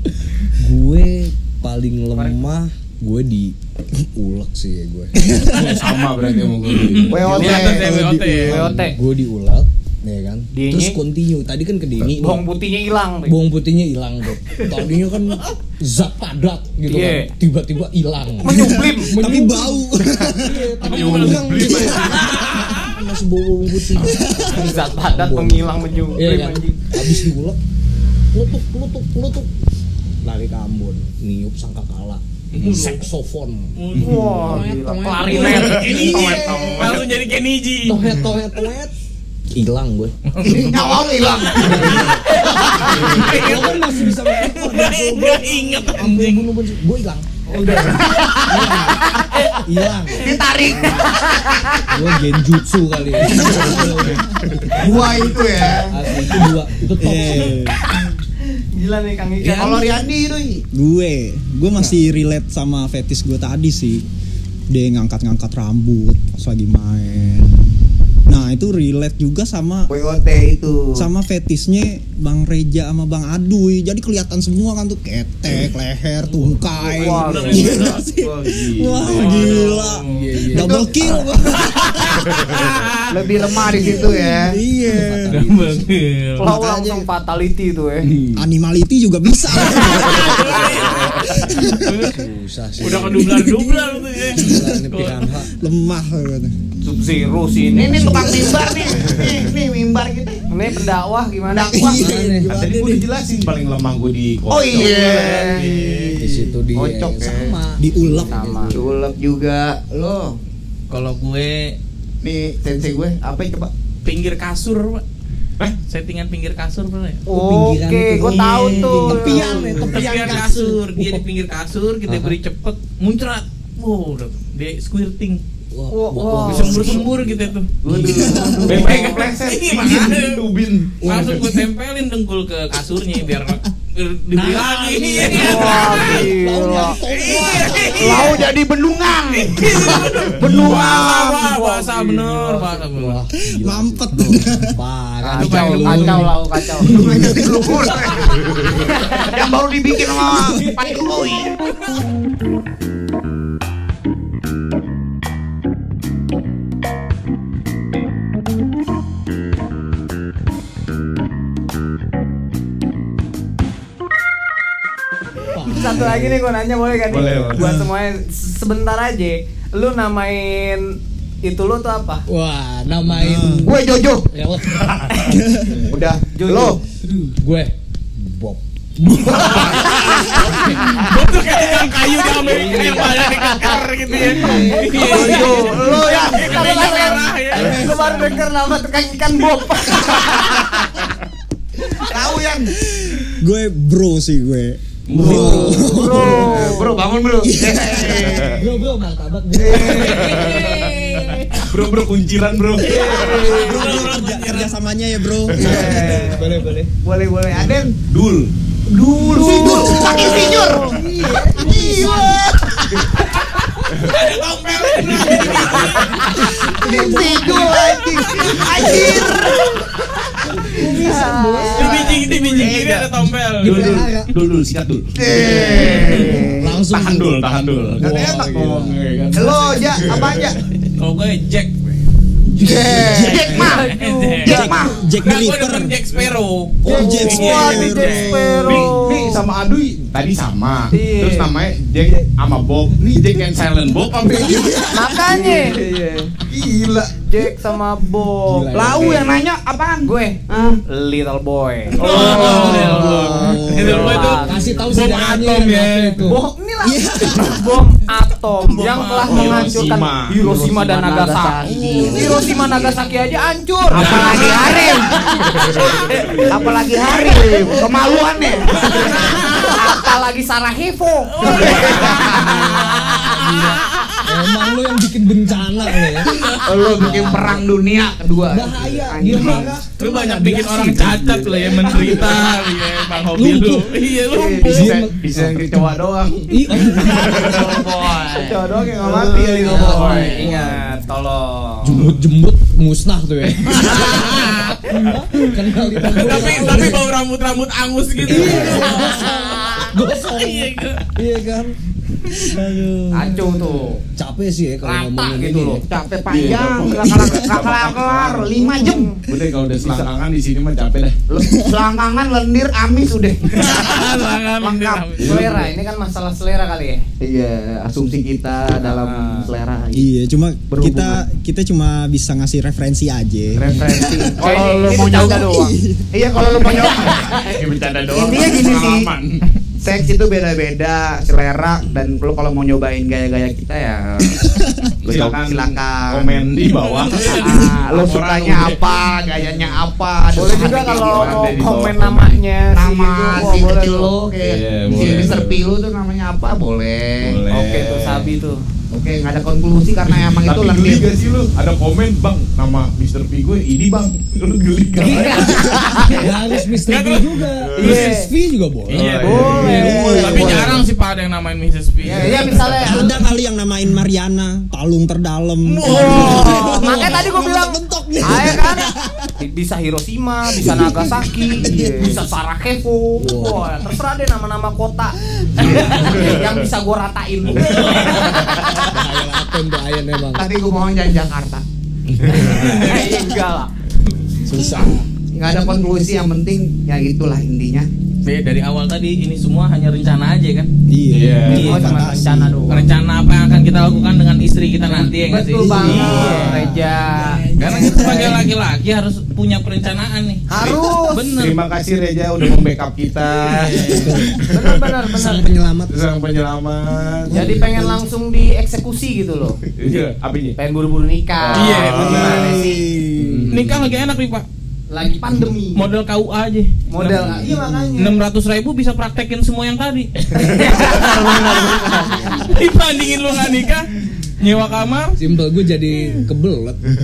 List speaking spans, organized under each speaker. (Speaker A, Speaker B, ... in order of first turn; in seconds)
Speaker A: 0.6-5.6, 7.6-12.4, 13.2-27.6, 28.3-29.5, 30.2-37.0, 37.8-38.9, 39.5-40.1, 41.6-47.3, 48.5-50.4, 51.9-55.0, 55.7-57.6, 76.3-77.8, 79.4-81.4, 83.7-84.0, 84.8-85.9, 91.7-93.6, 94.3-95.5, 101.8-102.8, 106.2-108.8, 117.2-121.2, 122.1-122.4, 125.7-127.5, 131.0-131.5, 134.3-138.4, 140.0-140.8, 141.9-148.3, 150.2-151.2, 165.5-166.4, 172.3-175.0, 177.4-179.7, 182.3-183.2, 184.1-185.5, 187.6-188.0, 195.2-196.7, 198.5-201.9, 202.8-203.4, 205.6-206.9, 209.6-212.4, 215.1-218.2, 218.8-219.1, 220.5-222.3, 223.6-224.3, 225.4-229.0, 232.7-233.2, 248.4-249.4, 253.9-256.4, 272.4-277.6, 278.4-282.6, 283.3-283.9, 284.6-285.8, 286.5-287.6, 290.3-291.0, 291.8-297.1, 298.2-301.7, 302.2-303.6, 304.1-305.8, 355.0-360.7, 373.2-373.7, 378.7-380.5, 384.4-385.1, 395.9-398.4, 404.0-404.4, 405.1-405.9, 417.2-418.0, 422.1-422.5, 425.2-426.9
Speaker B: 5.5-7.6, 20.9-22.2, 32.5-32.9, 40.4-41.0, 42.8-43.4, 53.5-54.1, 77.3-79.5, 82.2-82.6, 90.9-91.4, 102.5-106.2, 128.6-131.4, 167.1-167.6, 174.8-175.2, 195.1-195.7, 200.0-201.0, 201.6-203.6, 208.1-208.5, 213.9-214.2, 223.6-226.2, 226.8-230.5, 238.6-244.9, 246.5-247.1, 252.0-253.2, 259.2-260.5, 261.8-262.3, 265.3-266.6, 284.6-287.7, 288.3-290.5, 296.2-296.6, 306.2-308.6, 309.2-311.2, 315.2-315.7, 318.8-319.5, 327.0-329.4, 335.0-338.9, 340.4-342.4, 344.4-345.6, 347.2-348.3, 350.2-355.9, 357.7-358.1, 358.9-359.9, 375.6-376.6, 377.4-378.9, 382.1-383.0, 391.1-391.9, 395.8-396.5, 401.3-404.9, 405.9-407.7, 409.7-410.6, 411.4-412.6, 413.2-413.9
Speaker C: 5.5-6.1, 6.6-8.7, 20.8-22.9, 32.6-33.0, 33.8-34.7, 35.2-38.0, 40.3-46.5, 77.2-78.0, 79.0-80.2, 81.8-83.1, 85.3-86.4, 89.7-92.2, 92.8-95.3, 104.8-106.1, 110.9-111.8, 114.0-115.0, 115.8-117.2, 119.8-125.4, 126.4-127.7, 128.7-130.4, 131.0-136.3, 137.0-138.5, 139.3-143.2, 145.4-146.3, 179.3-187.9, 203.3-204.8, 214.0-216.6, 218.3-219.5, 221.7-224.1, 226.0-226.3, 230.9-231.9, 233.7-234.6, 235.2-238.6, 252.0-256.2, 258.7-259.7, 262.0-262.2, 263.9-264.8, 268.7-269.5, 271.4-273.5, 276.2-276.6, 279.4-285.0, 293.8-294.8, 296.1-301.1, 313.5-315.4, 336.9-337.8, 356.9-357.3, 357.8-358.1, 358.9-362.6, 365.6-367.1, 377.6-378.3, 382.4-383.1, 388.2-390.7, 391.4-391.9, 392.7-396.6, 397.6-400.5, 401.1-401.6, 403.5-404.2, 411.5-412.6, 413.5-414.4, 415.7-421.3, 422.4-425.2
Speaker D: 7.1-7.9, 36.5-36.8, 40.4-43.0, 47.5-48.8, 50.1-51.2, 54.7-56.0, 59.4-60.6, 69.9-71.0, 77.0-77.8, 80.5-81.3, 82.5-84.6, 97.7-100.5, 101.5-102.3, 104.5-107.5, 108.7-110.4, 112.2-113.7, 118.2-119.6, 127.8-130.2, 137.9-141.6, 146.8-151.5, 173.6-174.3, 175.8-176.8, 179.1-180.3, 184.1-187.0, 192.0-192.7, 195.1-198.7, 199.5-200.7, 202.8-204.0, 205.5-208.0, 208.9-211.0, 211.5-212.8, 216.5-219.7, 221.8-223.1, 225.1-226.8, 229.3-230.6, 232.5-233.9, 234.4-235.0, 237.0-238.0, 238.6-239.4, 245.2-246.4, 248.7-250.8, 252.0-253.3, 260.4-262.9, 263.9-265.2, 266.5-270.1, 271.4-273.2, 276.6-279.8, 284.3-284.7, 289.0-290.5, 305.8-309.2, 309.8-310.1, 311.3-315.3, 317.2-320.1, 320.7-321.2, 323.6-325.5, 326.1-327.4, 328.1-329.1, 329.8-334.4, 335.0-336.5, 337.1-341.7, 342.7-347.4, 348.9-351.1, 380.3-381.6, 385.3-387.9
Speaker E: 7.4-7.7, 8.4-9.0, 10.5-11.0, 12.0-13.3, 16.9-17.3, 18.4-19.1, 24.5-26.8, 33.9-37.0, 42.4-42.9, 47.9-49.6, 50.8-51.9, 58.5-59.9, 77.0-77.6, 86.4-88.1, 96.8-98.3, 100.5-102.0, 108.3-108.8, 117.2-119.7, 125.9-127.0, 135.3-138.3, 141.7-142.5, 145.2-146.9, 148.7-149.3, 165.7-172.2, 175.1-175.4, 176.3-177.3, 179.5-181.1, 182.9-190.9, 195.3-197.0, 200.3-201.4, 202.9-203.6, 209.2-212.3, 220.7-222.2, 233.1-234.7, 236.8-239.4, 240.9-241.5, 244.9-245.8, 247.2-248.9, 250.0-254.9, 256.2-267.8, 268.7-274.2, 287.3-288.6, 289.3-292.1, 298.4-299.9, 303.1-304.0, 304.8-305.8, 308.5-309.2, 315.2-317.0, 324.4-325.7, 326.6-327.5, 340.3-344.1, 347.5-348.6, 355.0-356.3, 357.8-358.3, 359.2-360.8, 362.0-363.1, 365.9-378.9, 382.3-383.7, 391.5-392.9, 394.9-398.3, 400.5-401.2, 404.5-405.4, 407.3-409.6, 410.6-412.8, 414.9-415.9, 416.9-418.2, 420.4-422.4
Speaker F: 18.4-20.7, 24.0-24.6, 53.4-53.7, 57.0-57.8, 60.7-64.0, 64.7-67.7, 68.3-69.9, 71.0-82.5, 83.7-85.4, 86.4-87.1, 88.3-92.0, 93.2-94.8, 95.6-96.5, 97.8-99.2, 101.7-102.6, 107.8-108.4, 119.1-120.6, 128.1-128.8, 143.5-144.8, 147.0-147.8, 167.6-167.9, 173.2-173.7, 175.2-175.8, 187.6-188.2, 193.3-196.8, 197.4-198.6, 202.8-206.2, 209.3-210.9, 232.9-233.7, 234.4-235.9, 236.8-238.4, 244.4-245.2, 252.8-254.2, 256.8-257.6, 319.9-324.3, 324.8-326.1, 334.4-334.9, 359.5-360.7, 362.8-369.3, 370.6-372.2, 390.9-392.7, 395.6-396.4, 407.5-407.8, 411.9-413.6